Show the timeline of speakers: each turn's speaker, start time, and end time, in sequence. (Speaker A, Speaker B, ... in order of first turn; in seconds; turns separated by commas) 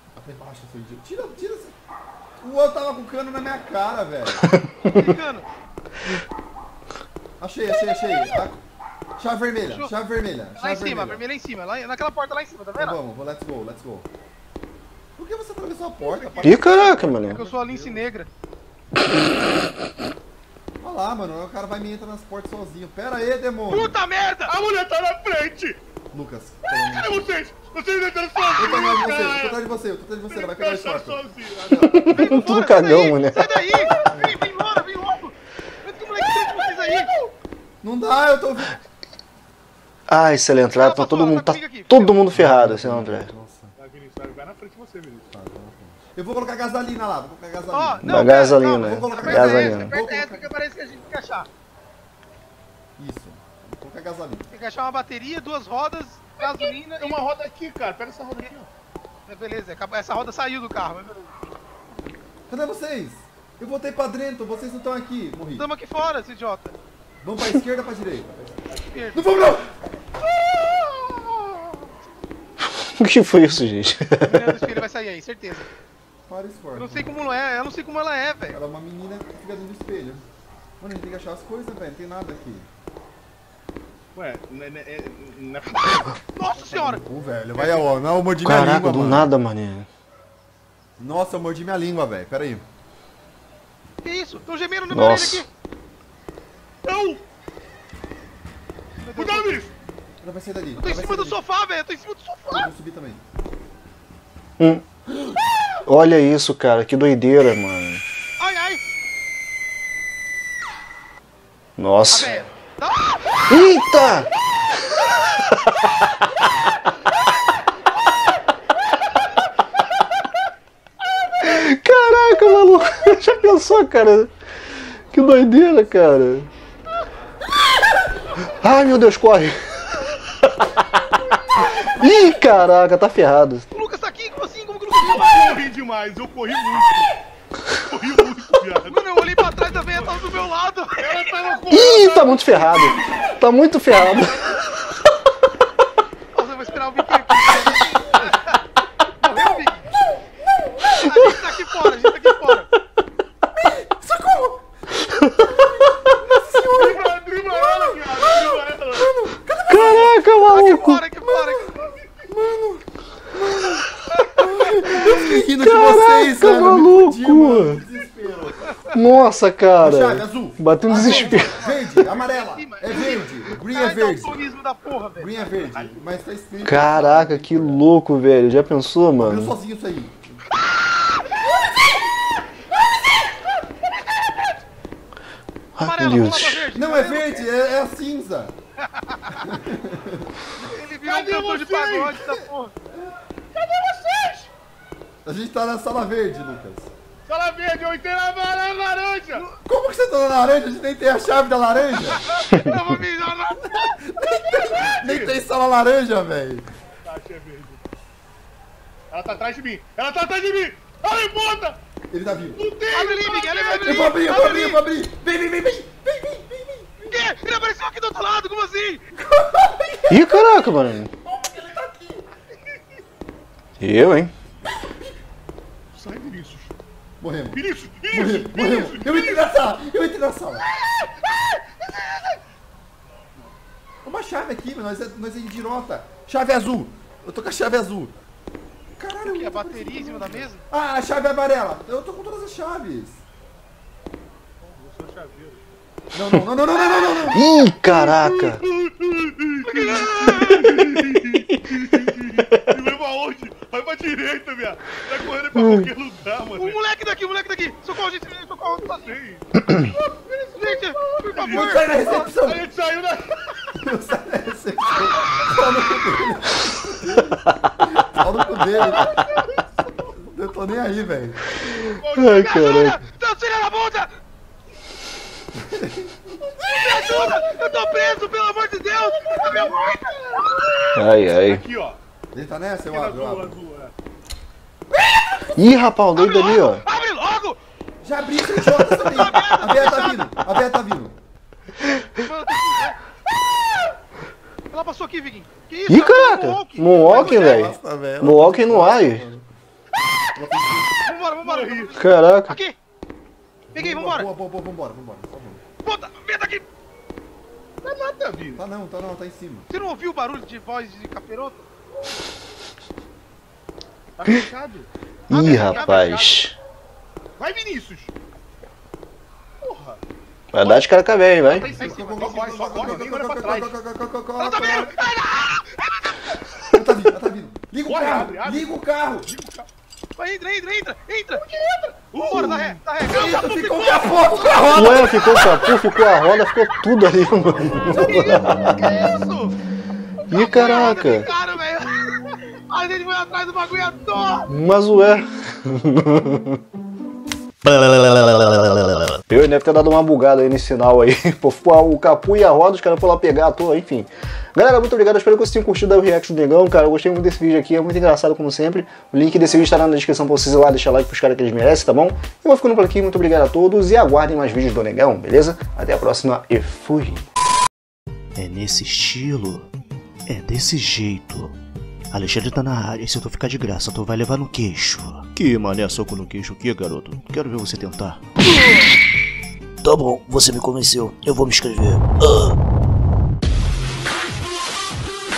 Speaker A: 0.1-1.8, Speaker A: 2.4-4.5, Speaker B: 4.4-4.9, Speaker C: 4.9-5.5, Speaker A: 7.4-8.6, Speaker C: 7.9-8.4, Speaker A: 9.2-11.2, Speaker C: 10.6-13.0, Speaker A: 12.8-14.1, Speaker A: 15.2-16.9, Speaker D: 16.0-18.0, Speaker B: 16.4-17.4, Speaker C: 17.3-18.3, Speaker A: 20.8-24.0, Speaker C: 23.7-24.5, Speaker D: 24.5-25.8, Speaker A: 26.1-27.3, Speaker D: 26.7-29.7, Speaker A: 28.6-32.4, Speaker D: 30.3-32.0, Speaker B: 31.9-33.5, Speaker C: 32.1-37.1, Speaker A: 34.1-34.4, Speaker D: 37.0-37.3, Speaker A: 37.8-38.8, Speaker B: 40.1-43.3, Speaker C: 40.7-42.2, Speaker A: 42.3-43.7, Speaker D: 43.8-45.3, Speaker A: 45.3-50.5, Speaker C: 47.7-51.5, Speaker B: 48.0-49.9, Speaker A: 53.0-54.5, Speaker C: 54.5-57.2, Speaker D: 56.4-58.7, Speaker C: 59.3-61.5, Speaker A: 62.5-65.7, Speaker C: 65.6-66.8, Speaker A: 67.2-68.6, Speaker D: 68.7-69.2, Speaker C: 68.9-69.3, Speaker A: 69.1-69.7, Speaker A: 70.8-71.5, Speaker B: 72.7-74.7, Speaker C: 74.3-75.7, Speaker A: 76.3-77.1, Speaker C: 76.8-78.6, Speaker A: 78.5-80.2, Speaker A: 80.8-82.7, Speaker D: 84.2-86.2, Speaker C: 86.4-87.0, Speaker A: 86.7-89.3, Speaker C: 87.6-87.8, Speaker B: 88.4-89.9, Speaker A: 91.0-92.6, Speaker C: 94.0-95.5, Speaker B: 94.9-95.5, Speaker D: 96.8-97.2, Speaker C: 99.0-99.6, Speaker D: 99.2-99.7, Speaker A: 100.2-101.4, Speaker C: 100.8-102.7, Speaker A: 102.5-103.2, Speaker B: 104.6-104.8, Speaker B: 105.9-108.0, Speaker C: 108.4-108.8, Speaker B: 111.8-112.5, Speaker C: 112.1-113.5, Speaker B: 113.5-114.3, Speaker B: 121.4-124.3, Speaker B: 125.1-126.5, Speaker B: 128.5-129.6, Speaker B: 130.3-133.7, Speaker C: 133.7-135.6, Speaker D: 135.0-137.1, Speaker D: 137.8-139.2, Speaker C: 138.9-141.1, Speaker D: 141.0-143.1, Speaker B: 141.7-144.6, Speaker C: 146.3-148.6, Speaker C: 149.2-149.9, Speaker C: 151.0-152.7, Speaker A: 153.7-154.6, Speaker B: 155.2-155.5, Speaker A: 155.3-160.1, Speaker D: 156.7-159.1, Speaker B: 159.7-161.0, Speaker C: 159.7-161.8, Speaker A: 161.2-161.7, Speaker A: 162.3-168.9, Speaker C: 164.1-164.5, Speaker B: 164.9-167.8, Speaker B: 168.9-171.6, Speaker A: 169.8-174.4, Speaker C: 170.9-175.5, Speaker A: 175.2-177.9, Speaker D: 175.6-176.0, Speaker B: 176.6-179.6, Speaker A: 179.2-180.4, Speaker B: 185.8-186.7, Speaker C: 185.8-187.5, Speaker A: 186.7-188.5, Speaker C: 188.8-189.4, Speaker A: 189.4-190.3, Speaker C: 190.6-192.7, Speaker D: 191.0-192.2, Speaker D: 193.6-194.5, Speaker A: 195.2-196.9, Speaker D: 197.3-199.5, Speaker A: 199.6-202.2, Speaker C: 202.2-203.9, Speaker A: 203.7-206.7, Speaker D: 204.7-205.4, Speaker D: 207.0-207.8, Speaker D: 209.1-211.8, Speaker A: 212.1-212.6, Speaker D: 212.5-214.8, Speaker C: 212.9-214.5, Speaker A: 213.8-217.3, Speaker C: 217.1-219.0, Speaker A: 219.2-220.7, Speaker B: 220.1-221.1, Speaker A: 221.2-222.3, Speaker B: 223.8-224.3, Speaker D: 225.9-226.8, Speaker A: 227.2-230.7, Speaker D: 227.5-229.5, Speaker A: 234.0-238.2, Speaker A: 239.0-243.2, Speaker C: 239.2-240.6, Speaker D: 244.6-245.7, Speaker A: 246.1-247.5, Speaker B: 247.3-248.6, Speaker D: 247.8-256.8, Speaker C: 249.6-250.7, Speaker B: 255.6-255.9, Speaker C: 256.6-259.1, Speaker D: 258.9-259.6, Speaker C: 260.3-262.3, Speaker D: 260.3-263.5, Speaker A: 261.5-262.6, Speaker A: 263.8-269.2, Speaker D: 268.9-270.0, Speaker A: 270.2-271.5, Speaker D: 271.8-272.6, Speaker B: 272.2-273.0, Speaker C: 272.3-274.1, Speaker A: 275.6-276.2, Speaker C: 276.7-281.0, Speaker D: 276.9-277.3, Speaker D: 278.9-280.6, Speaker B: 280.9-281.6, Speaker D: 281.2-282.0, Speaker A: 282.3-283.6, Speaker D: 282.9-283.9, Speaker B: 285.6-286.9, Speaker C: 286.1-287.6, Speaker A: 288.0-291.2, Speaker C: 289.0-290.3, Speaker C: 292.1-293.0, Speaker C: 294.7-297.7, Speaker B: 295.9-299.3, Speaker A: 297.0-299.4, Speaker A: 300.4-301.0, Speaker C: 301.1-302.8, Speaker D: 301.4-301.9, Speaker B: 302.0-302.6, Speaker C: 303.7-304.3, Speaker A: 303.7-305.6, Speaker C: 305.8-306.6, Speaker D: 307.8-308.6, Speaker A: 308.6-309.7, Speaker C: 309.7-311.7, Speaker D: 314.2-314.9, Speaker C: 315.3-316.5, Speaker B: 315.3-316.6, Speaker D: 315.5-315.9, Speaker D: 317.4-318.1, Speaker D: 319.6-320.0, Speaker B: 320.5-321.7, Speaker D: 321.4-323.7, Speaker A: 321.8-325.0, Speaker C: 321.8-323.0, Speaker C: 324.4-326.2, Speaker A: 326.7-329.3, Speaker D: 327.8-329.7, Speaker C: 330.2-331.4, Speaker D: 331.4-332.8, Speaker C: 332.2-335.4, Speaker A: 333.0-335.5, Speaker B: 334.7-338.7, Speaker C: 335.9-336.3, Speaker C: 337.9-339.6, Speaker C: 340.3-344.5, Speaker B: 340.3-341.3, Speaker B: 344.5-346.6, Speaker E: 347.7-348.4, Speaker B: 348.3-367.3, Speaker E: 368.4-369.7, Speaker E: 370.3-371.6, Speaker E: 372.1-378.2, Speaker E: 379.8-382.6